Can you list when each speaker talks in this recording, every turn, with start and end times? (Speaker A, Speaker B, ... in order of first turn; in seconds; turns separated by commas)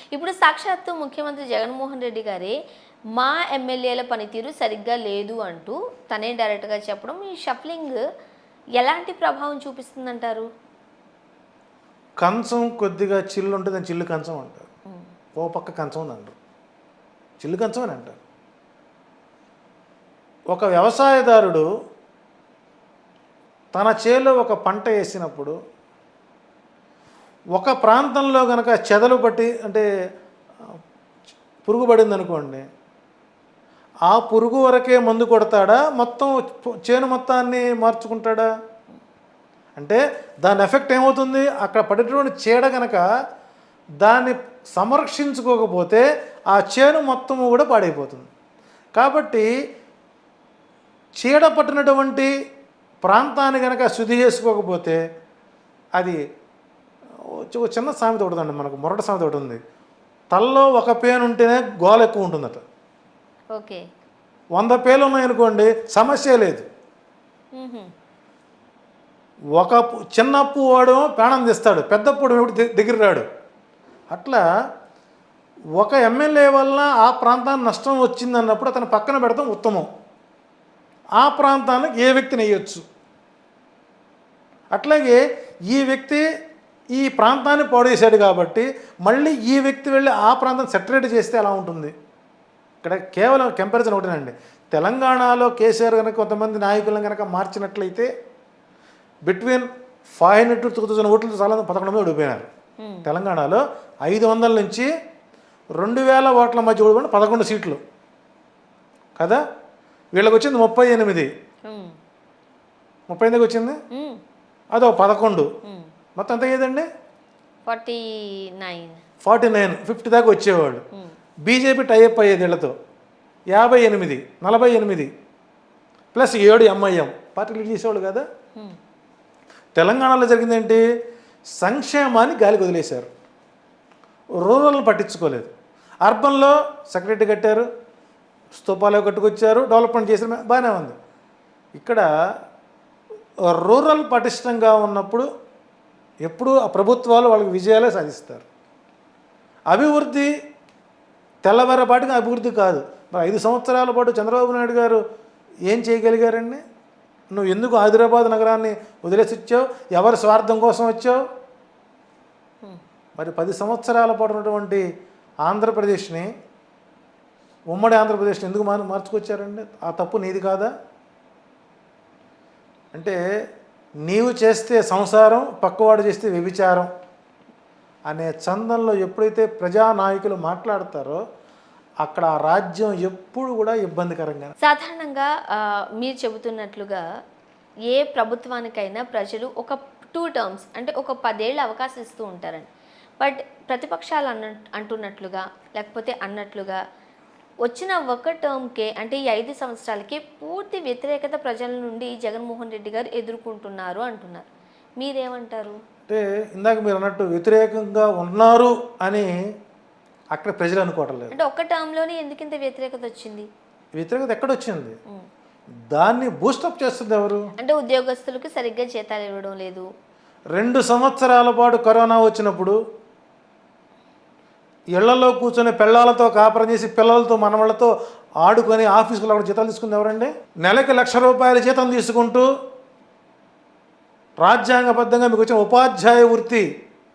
Speaker A: 0.1-2.5, Speaker A: 3.1-8.0, Speaker A: 8.8-10.5, Speaker B: 12.2-14.7, Speaker B: 15.3-16.3, Speaker B: 17.4-18.2, Speaker B: 20.5-21.6, Speaker B: 23.7-25.5, Speaker B: 27.6-29.9, Speaker B: 31.6-32.6, Speaker B: 34.1-38.5, Speaker B: 39.8-43.0, Speaker B: 44.0-48.3, Speaker B: 49.0-49.5, Speaker B: 51.2-52.3, Speaker B: 53.0-55.0, Speaker B: 57.4-59.6, Speaker B: 60.3-62.6, Speaker A: 63.5-63.8, Speaker B: 64.5-66.6, Speaker A: 67.5-67.9, Speaker B: 69.6-73.2, Speaker B: 74.1-74.4, Speaker B: 75.8-79.9, Speaker B: 81.2-82.8, Speaker B: 84.7-86.2, Speaker B: 86.9-91.9, Speaker B: 92.8-98.1, Speaker B: 99.2-102.5, Speaker A: 102.8-103.1, Speaker B: 103.0-104.9, Speaker B: 105.8-107.8, Speaker B: 110.1-111.3, Speaker A: 111.7-111.9, Speaker B: 113.1-113.8, Speaker A: 113.9-114.2, Speaker B: 114.7-115.5, Speaker B: 116.2-116.9, Speaker A: 117.7-119.0, Speaker B: 119.2-120.8, Speaker B: 121.5-122.7, Speaker B: 123.5-125.1, Speaker B: 126.1-128.2, Speaker B: 129.8-130.8, Speaker B: 131.6-133.1, Speaker B: 134.4-135.5, Speaker B: 136.0-137.7, Speaker B: 138.5-140.9, Speaker B: 141.8-142.1, Speaker B: 143.5-145.3, Speaker B: 146.2-148.4, Speaker B: 149.7-150.3, Speaker B: 151.4-155.0, Speaker B: 155.7-156.6, Speaker B: 157.3-161.2, Speaker B: 163.2-164.8, Speaker B: 165.4-166.3, Speaker B: 167.7-170.7, Speaker B: 174.1-176.9, Speaker B: 178.1-181.2, Speaker B: 182.0-184.5, Speaker A: 184.6-187.0, Speaker A: 187.9-192.7, Speaker A: 193.2-196.8, Speaker A: 197.6-205.8, Speaker B: 206.1-209.3, Speaker B: 210.3-211.3, Speaker A: 211.3-213.5, Speaker B: 213.9-215.0, Speaker B: 215.9-217.5, Speaker A: 217.6-219.8, Speaker B: 220.6-222.8, Speaker B: 224.9-227.9, Speaker B: 228.4-232.5, Speaker B: 234.4-236.7